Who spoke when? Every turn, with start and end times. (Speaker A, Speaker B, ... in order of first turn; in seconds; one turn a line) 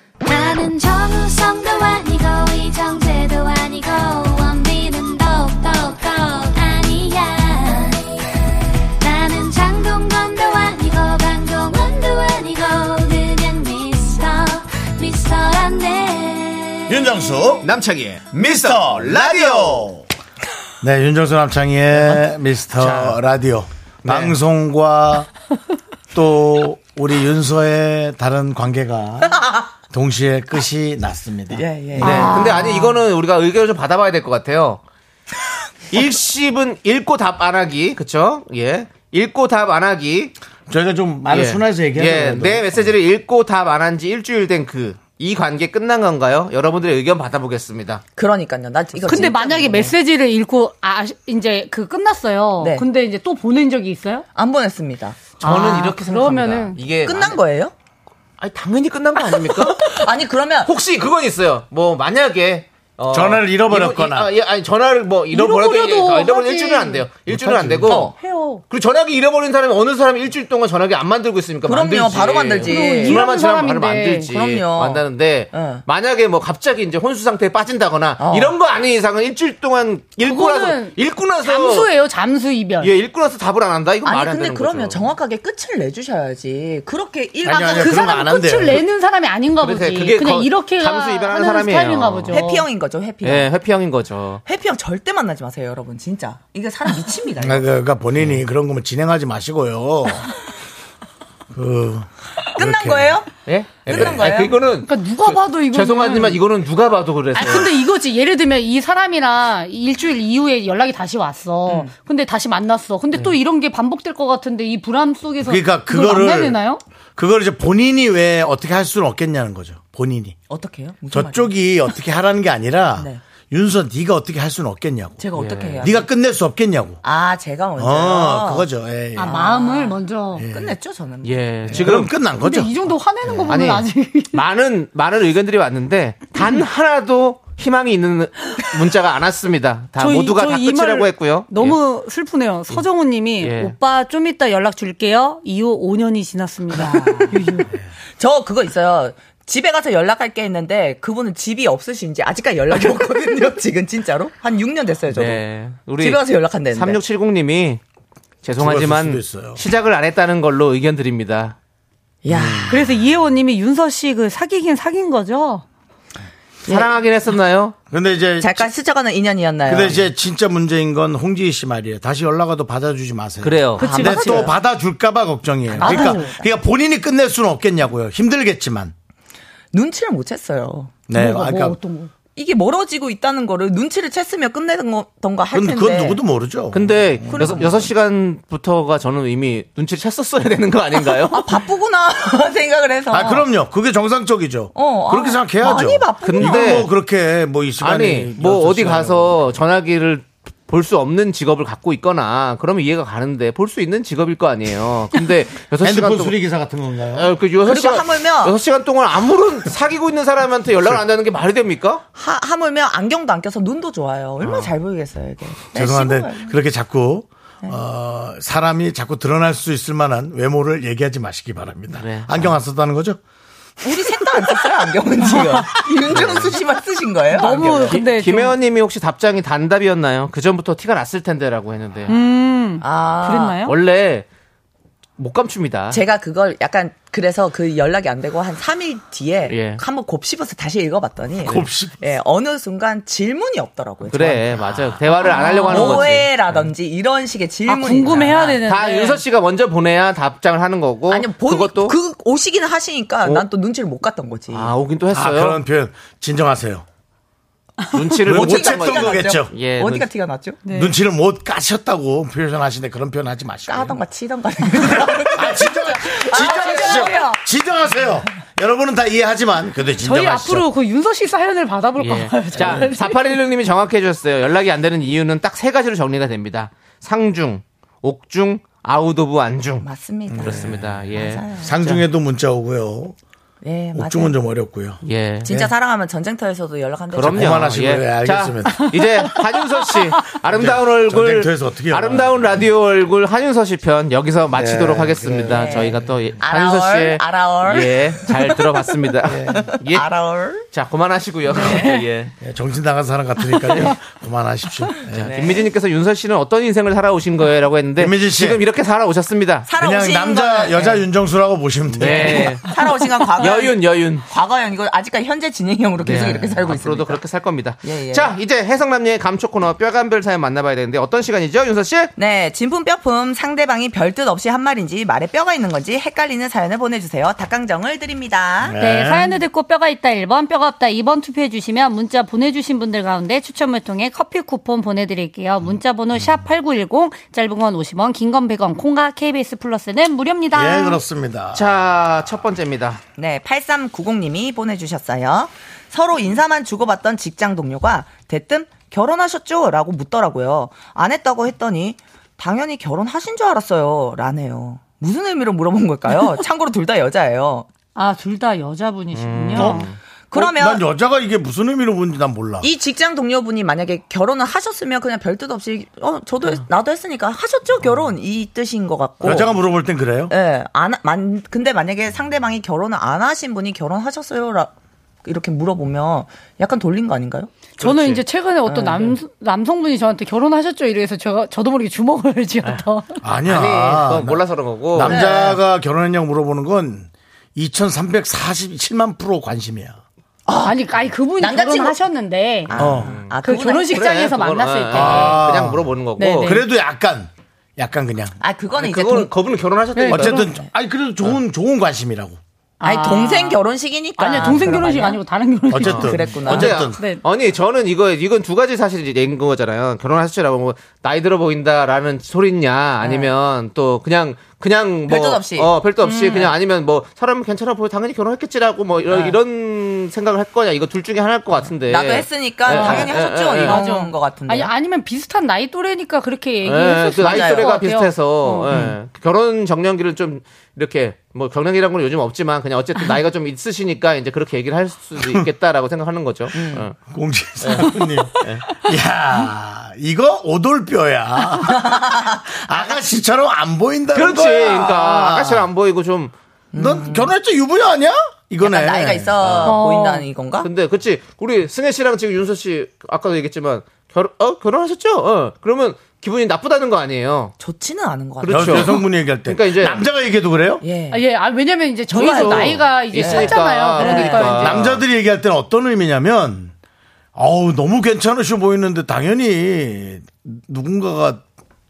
Speaker A: 0.2-8.1
Speaker A: 9.0-17.0
Speaker B: 16.9-17.7
Speaker C: 17.6-19.9
Speaker B: 18.4-20.0
Speaker B: 20.8-25.3
Speaker C: 22.8-23.2
Speaker C: 24.0-24.4
Speaker B: 26.1-31.6
Speaker D: 29.2-29.7
Speaker D: 31.5-32.6
Speaker E: 32.0-32.9
Speaker C: 32.0-34.8
Speaker C: 35.9-40.3
Speaker B: 40.7-42.9
Speaker C: 41.3-48.0
Speaker D: 48.1-49.9
Speaker E: 49.0-54.2
Speaker D: 52.6-52.9
Speaker D: 54.3-55.3
Speaker E: 55.4-56.8
Speaker C: 55.4-57.4
Speaker D: 57.0-57.7
Speaker C: 58.4-60.0
Speaker D: 59.2-60.7
Speaker C: 60.6-68.1
Speaker B: 63.1-64.3
Speaker E: 65.3-67.1
Speaker B: 67.3-68.0
Speaker D: 67.9-68.1
Speaker E: 68.0-68.6
Speaker C: 68.7-81.9
Speaker D: 71.6-73.3
Speaker E: 72.6-74.3
Speaker D: 74.3-75.8
Speaker D: 78.2-78.5
Speaker E: 80.2-82.9
Speaker C: 82.8-85.0
Speaker D: 84.0-88.3
Speaker B: 87.4-88.8
Speaker E: 87.6-92.7
Speaker C: 89.6-92.4
Speaker D: 92.3-93.5
Speaker C: 93.2-94.4
Speaker D: 94.5-97.7
Speaker B: 97.4-100.3
Speaker B: 101.5-103.2
Speaker D: 102.5-103.3
Speaker C: 103.4-107.7
Speaker D: 103.8-104.6
Speaker E: 104.7-106.4
Speaker E: 107.3-116.8
Speaker D: 111.7-111.9
Speaker B: 115.4-116.6
Speaker B: 117.2-120.4
Speaker D: 120.5-121.5
Speaker B: 121.1-125.2
Speaker D: 125.2-126.0
Speaker C: 125.3-125.9
Speaker B: 125.8-127.0
Speaker D: 127.0-128.7
Speaker B: 127.8-129.4
Speaker E: 129.2-130.4
Speaker D: 129.2-131.8
Speaker B: 130.3-130.8
Speaker C: 131.2-132.2
Speaker B: 131.7-133.5
Speaker E: 132.3-134.4
Speaker C: 133.5-141.8
Speaker E: 140.0-147.7
Speaker C: 143.4-143.7
Speaker D: 146.7-147.5
Speaker D: 148.2-155.4
Speaker C: 155.1-157.8
Speaker D: 156.0-157.0
Speaker C: 158.4-161.6
Speaker B: 158.6-159.6
Speaker D: 162.2-163.0
Speaker B: 162.3-162.7
Speaker E: 162.7-165.6
Speaker C: 166.7-167.7
Speaker B: 167.9-168.7
Speaker D: 168.4-170.1
Speaker B: 169.6-178.9
Speaker C: 173.4-174.0
Speaker E: 173.8-174.5
Speaker D: 173.8-174.5
Speaker D: 175.7-176.4
Speaker E: 175.8-176.4
Speaker D: 179.7-181.0
Speaker B: 181.1-181.8
Speaker E: 181.1-182.1
Speaker D: 182.3-186.2
Speaker B: 185.5-187.9
Speaker C: 186.7-191.5
Speaker D: 187.3-187.9
Speaker D: 191.3-193.5
Speaker B: 193.1-199.4
Speaker D: 194.7-196.8
Speaker C: 196.2-196.9
Speaker C: 197.8-206.3
Speaker B: 205.8-207.3
Speaker C: 207.1-212.0
Speaker D: 207.6-208.6
Speaker D: 212.2-216.5
Speaker C: 214.4-214.7
Speaker B: 215.7-223.2
Speaker C: 221.9-222.5
Speaker D: 223.8-228.0
Speaker E: 225.2-225.8
Speaker C: 226.1-226.5
Speaker E: 227.3-228.6
Speaker C: 227.9-232.1
Speaker E: 232.1-233.7
Speaker D: 232.8-233.6
Speaker C: 233.6-234.2
Speaker C: 235.2-236.0
Speaker D: 235.9-244.6
Speaker C: 239.5-239.8
Speaker B: 241.4-242.1
Speaker C: 244.1-246.3
Speaker B: 244.6-245.0
Speaker D: 245.1-248.6
Speaker E: 245.2-246.2
Speaker E: 247.7-249.2
Speaker C: 248.6-251.9
Speaker D: 251.1-254.7
Speaker C: 254.5-255.6
Speaker B: 255.1-256.8
Speaker C: 257.9-260.1
Speaker B: 258.2-259.5
Speaker D: 258.3-260.6
Speaker E: 260.6-261.0
Speaker B: 260.7-264.0
Speaker D: 263.7-267.4
Speaker B: 264.9-270.7
Speaker E: 266.3-267.4
Speaker E: 269.9-273.2
Speaker C: 272.0-279.9
Speaker B: 272.6-272.9
Speaker D: 279.8-282.0
Speaker B: 280.3-283.2
Speaker C: 280.4-281.5
Speaker D: 283.6-284.4
Speaker B: 283.9-285.7
Speaker C: 285.0-285.5
Speaker D: 285.4-287.7
Speaker C: 287.1-300.1
Speaker B: 287.2-288.9
Speaker E: 288.9-289.4
Speaker B: 290.5-292.6
Speaker B: 294.5-296.1
Speaker D: 295.4-298.5
Speaker B: 299.2-299.7
Speaker D: 299.4-300.6
Speaker C: 300.7-302.3
Speaker E: 301.6-302.1
Speaker B: 302.4-305.4
Speaker E: 303.5-303.9
Speaker C: 305.1-309.7
Speaker D: 305.2-305.7
Speaker B: 308.0-308.6
Speaker D: 309.6-311.1
Speaker B: 309.8-312.6
Speaker C: 311.9-314.2
Speaker D: 312.0-317.2
Speaker C: 316.0-322.1
Speaker D: 317.8-318.4
Speaker D: 322.2-328.8
Speaker B: 328.6-329.4
Speaker E: 328.8-341.0
Speaker B: 340.5-341.7
Speaker C: 341.5-343.0
Speaker D: 343.2-357.7
Speaker E: 357.9-359.9
Speaker C: 359.1-360.0
Speaker D: 360.3-360.8
Speaker B: 360.3-362.7
Speaker D: 362.6-369.6
Speaker B: 369.2-370.3
Speaker D: 370.3-374.7
Speaker D: 375.2-377.6
Speaker E: 377.7-383.2
Speaker C: 377.8-378.2
Speaker D: 378.7-379.1
Speaker B: 383.2-384.4
Speaker C: 383.5-385.2
Speaker B: 384.9-390.0
Speaker D: 385.0-385.6
Speaker D: 390.4-392.0
Speaker E: 390.6-392.7
Speaker D: 392.7-394.2
Speaker C: 392.7-393.4
Speaker B: 392.7-393.1
Speaker E: 393.4-395.4
Speaker C: 393.9-396.6
Speaker B: 394.9-398.4
Speaker E: 396.2-396.6
Speaker D: 398.4-399.3
Speaker C: 398.7-400.4
Speaker E: 399.9-400.6
Speaker B: 400.1-402.4
Speaker E: 402.8-403.6
Speaker D: 402.8-405.2
Speaker E: 404.2-407.2
Speaker B: 405.7-407.0
Speaker C: 405.8-423.8
Speaker D: 405.9-406.8
Speaker D: 413.0-413.3
Speaker D: 415.1-416.4
Speaker E: 416.0-416.5
Speaker D: 419.1-419.4
Speaker D: 421.8-424.7
Speaker E: 422.7-428.8
Speaker C: 426.6-436.9
Speaker D: 427.2-427.7
Speaker B: 435.2-435.4
Speaker D: 436.5-436.9
Speaker B: 437.1-445.6
Speaker C: 437.6-438.6
Speaker E: 437.8-438.2
Speaker D: 441.5-443.0
Speaker C: 444.1-446.3
Speaker D: 446.7-447.3
Speaker B: 446.8-449.7
Speaker D: 448.6-450.7
Speaker C: 449.4-449.7
Speaker E: 449.6-450.3
Speaker C: 450.6-457.5
Speaker D: 457.6-459.0
Speaker C: 458.4-460.0
Speaker B: 458.5-460.8
Speaker D: 460.8-461.2
Speaker E: 461.1-464.8
Speaker D: 462.1-464.6
Speaker C: 462.1-465.0
Speaker B: 464.6-466.7
Speaker B: 467.3-471.4